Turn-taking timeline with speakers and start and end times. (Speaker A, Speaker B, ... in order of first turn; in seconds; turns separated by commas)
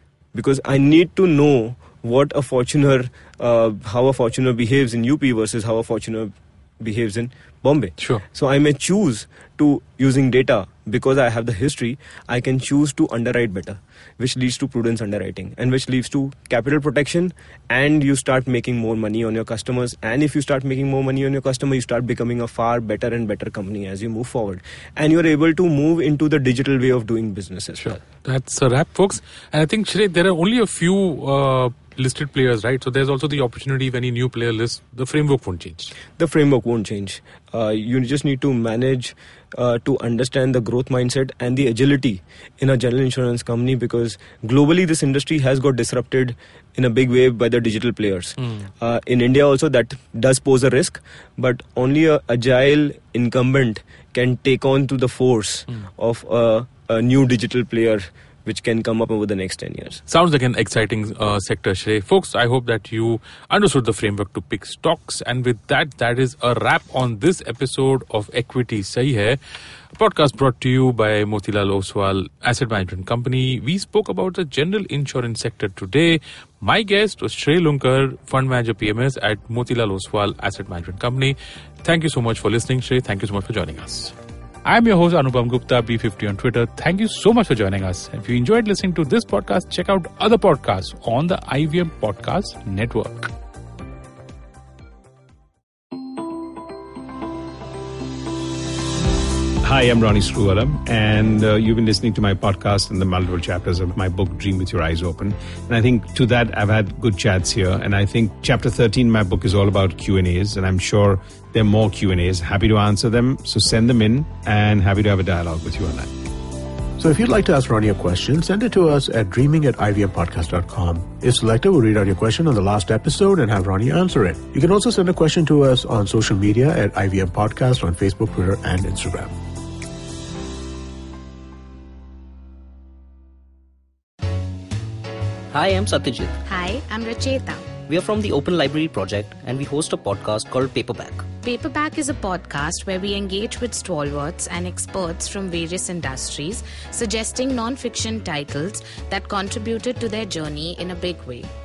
Speaker A: 0.3-28.0, Speaker B: 8.0-8.2, Speaker B: 27.8-35.9, Speaker A: 36.2-60.0, Speaker B: 48.4-48.7, Speaker B: 60.1-69.4, Speaker B: 70.0-93.3, Speaker C: 99.6-116.1, Speaker D: 117.0-129.4, Speaker E: 135.5-136.4, Speaker F: 136.5-137.7, Speaker E: 137.9-141.3, Speaker F: 141.4-151.5